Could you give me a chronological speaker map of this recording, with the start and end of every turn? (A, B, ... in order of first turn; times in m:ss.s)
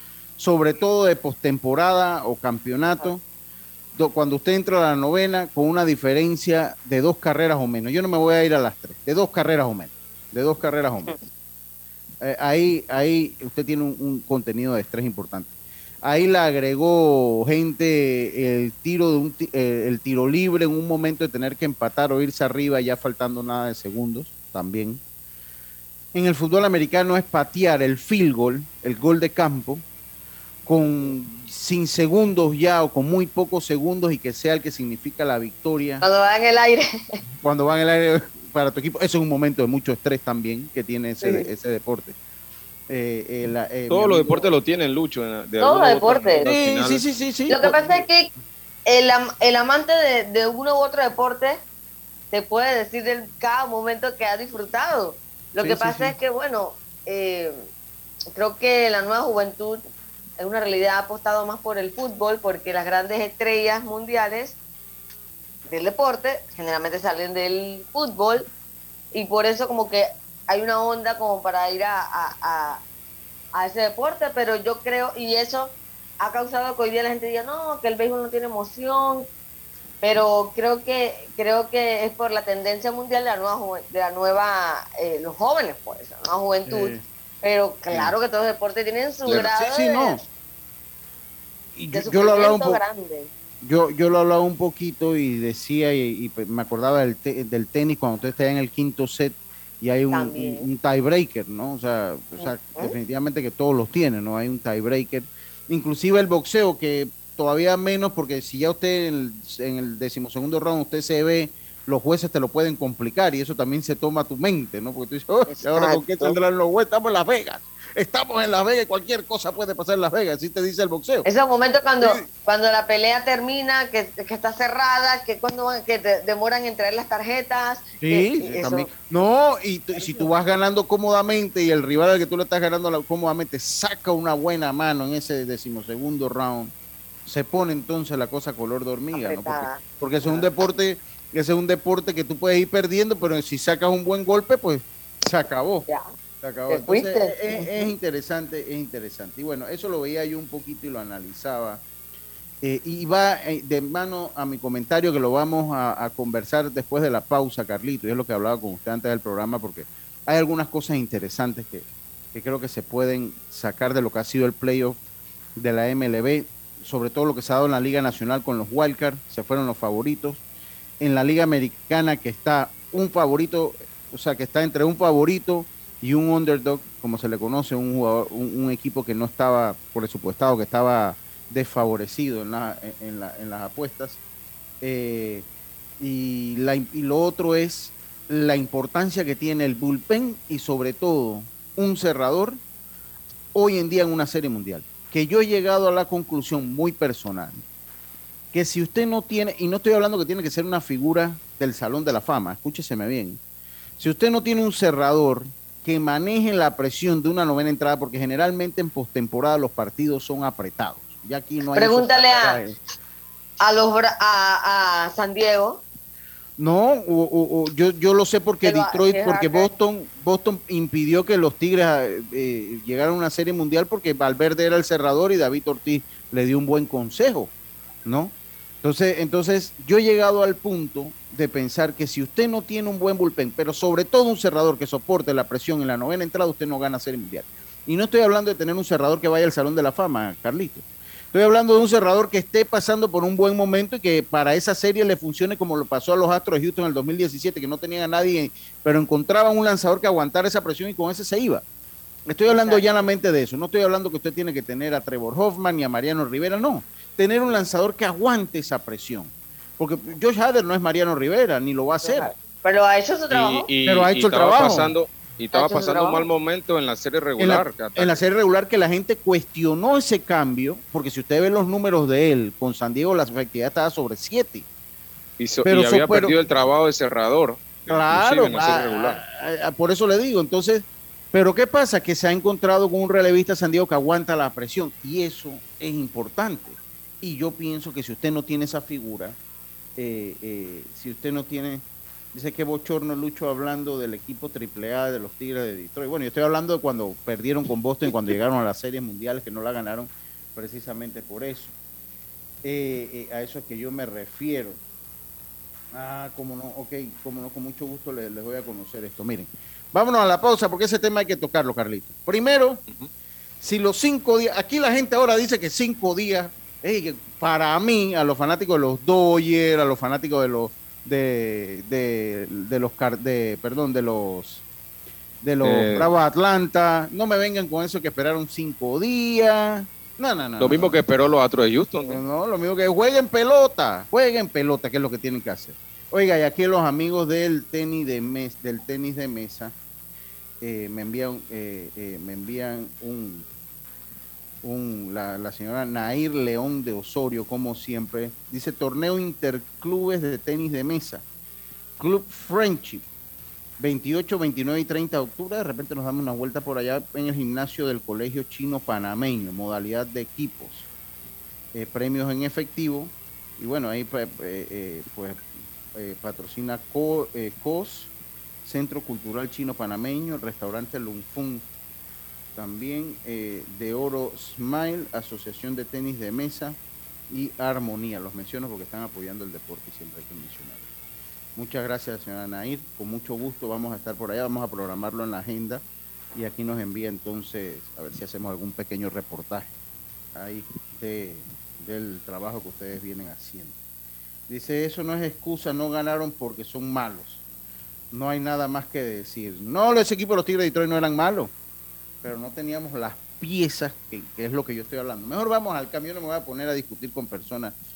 0:00.4-0:03.2 A
0:03.9-0:11.1 A
0:12.2-0:15.5 A
0:16.0-0:25.0 A
0:26.1-0:29.8 A
0:30.6-0:36.0 A
0:36.0-0:36.8 B
0:37.4-0:42.2 A
0:41.2-0:41.5 B
0:42.9-0:44.5 A
0:43.9-0:47.0 C
0:45.6-0:46.5 B
0:46.4-0:48.0 A
0:47.5-0:48.3 B
0:48.9-0:51.6 B
0:52.3-0:57.6 B
0:55.6-0:56.2 A
0:58.4-0:59.8 B
1:00.4-1:04.6 B
1:05.6-1:08.5 B
1:09.1-1:12.8 B
1:13.5-1:19.3 B
1:20.0-1:30.2 B
1:26.7-1:27.0 A
1:27.9-1:28.2 A
1:29.2-1:30.2 A
1:31.7-1:32.8 A
1:31.9-1:33.3 B
1:33.6-2:01.3 A
1:40.1-1:40.6 B
1:42.4-1:42.9 B
1:55.5-1:56.4 B
2:01.2-2:08.9 B
2:02.0-2:02.2 A
2:08.0-2:16.7 A
2:09.9-2:10.3 B
2:17.2-2:25.9 A
2:19.1-2:20.5 B
2:26.4-2:31.8 A
2:26.7-2:27.8 B
2:32.6-2:45.0 A
2:45.6-2:50.4 A
2:51.0-3:04.2 A
3:04.8-3:05.4 A
3:06.0-3:12.6 A
3:13.5-3:17.6 A
3:18.5-3:23.4 A
3:24.0-3:32.8 A
3:31.7-3:32.6 B
3:33.6-3:35.8 B
3:36.6-3:47.5 A
3:38.6-3:39.7 B
3:48.0-4:11.6 A
4:12.3-4:22.3 A
4:12.5-4:12.8 B
4:22.0-4:23.7 B
4:23.3-4:28.2 C
4:23.8-4:24.9 A
4:25.5-4:26.2 B
4:27.4-4:34.6 A
4:35.4-4:39.2 C
4:35.6-4:36.4 A
4:37.9-4:49.4 A
4:50.0-5:01.7 A
5:02.6-5:04.8 A
5:05.9-5:12.8 A
5:13.6-5:24.6 A
5:25.4-5:31.0 A
5:25.6-5:26.1 C
5:30.6-5:32.2 C
5:32.0-5:39.7 A
5:40.6-5:43.4 A
5:44.6-5:51.2 A
5:52.0-5:53.0 A
5:53.8-6:00.9 A
6:01.7-6:08.1 A
6:08.6-6:11.6 A
6:12.6-6:16.8 A
6:17.3-6:20.8 A
6:21.6-6:25.8 A
6:26.3-6:29.7 A
6:30.3-6:33.8 A
6:34.5-6:37.4 A
6:38.1-6:41.5 A
6:42.2-6:47.7 A